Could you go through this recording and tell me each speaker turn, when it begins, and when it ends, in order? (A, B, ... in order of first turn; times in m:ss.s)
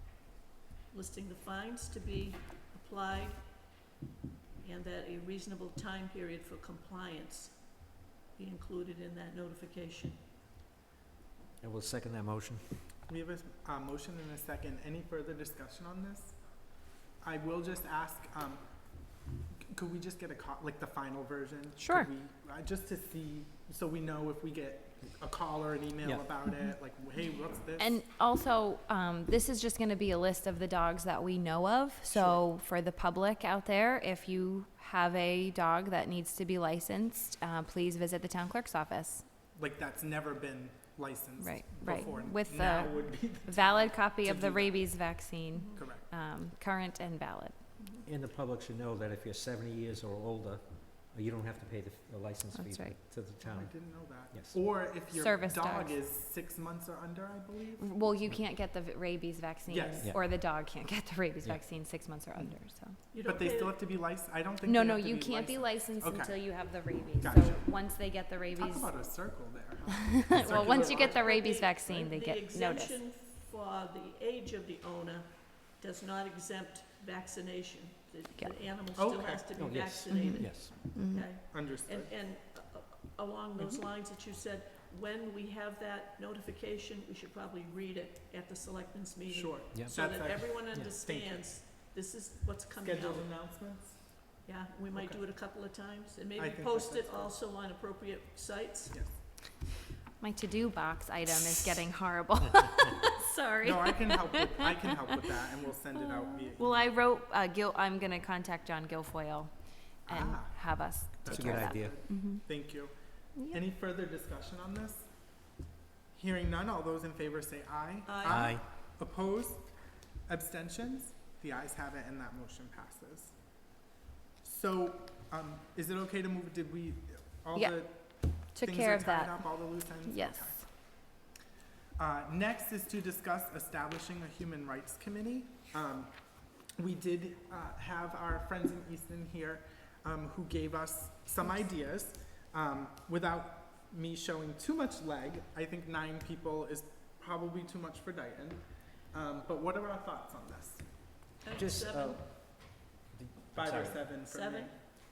0:00.9-0:03.4 A
0:04.6-0:07.8 A
0:08.3-0:10.2 A
0:11.6-0:12.7 B
0:13.1-0:16.4 C
0:17.2-0:18.6 C
0:19.7-0:28.0 C
0:21.8-0:22.1 D
0:27.8-0:39.2 D
0:32.1-0:32.5 C
0:39.6-0:46.1 C
0:41.4-0:47.6 D
0:45.5-0:45.8 A
0:48.0-0:54.6 B
0:52.5-0:53.0 D
0:53.4-0:58.1 C
0:55.1-0:56.0 D
0:57.8-1:03.0 D
0:59.7-1:00.2 C
1:03.1-1:03.8 A
1:03.2-1:11.3 C
1:04.6-1:08.9 D
1:10.2-1:13.0 D
1:10.4-1:33.3 A
1:19.0-1:19.5 C
1:19.6-1:20.7 B
1:20.1-1:20.4 D
1:20.9-1:21.3 D
1:21.5-1:22.1 C
1:29.3-1:31.5 C
1:32.8-1:34.0 C
1:34.4-1:39.0 A
1:34.9-1:35.2 C
1:36.4-1:37.4 C
1:38.9-1:39.2 C
1:40.2-1:44.9 D
1:43.6-1:46.9 C
1:46.2-1:52.8 D
1:50.1-1:55.1 C
1:51.3-1:52.0 B
1:56.1-1:59.7 C
1:58.1-1:58.5 A
1:58.2-1:58.6 B
2:00.3-2:03.4 C
2:04.4-2:10.7 C
2:07.5-2:10.7 D
2:12.0-2:16.1 C
2:16.8-2:30.9 C
2:31.4-2:32.2 A
2:31.6-2:34.1 B
2:33.5-2:34.8 C
2:34.3-2:34.7 A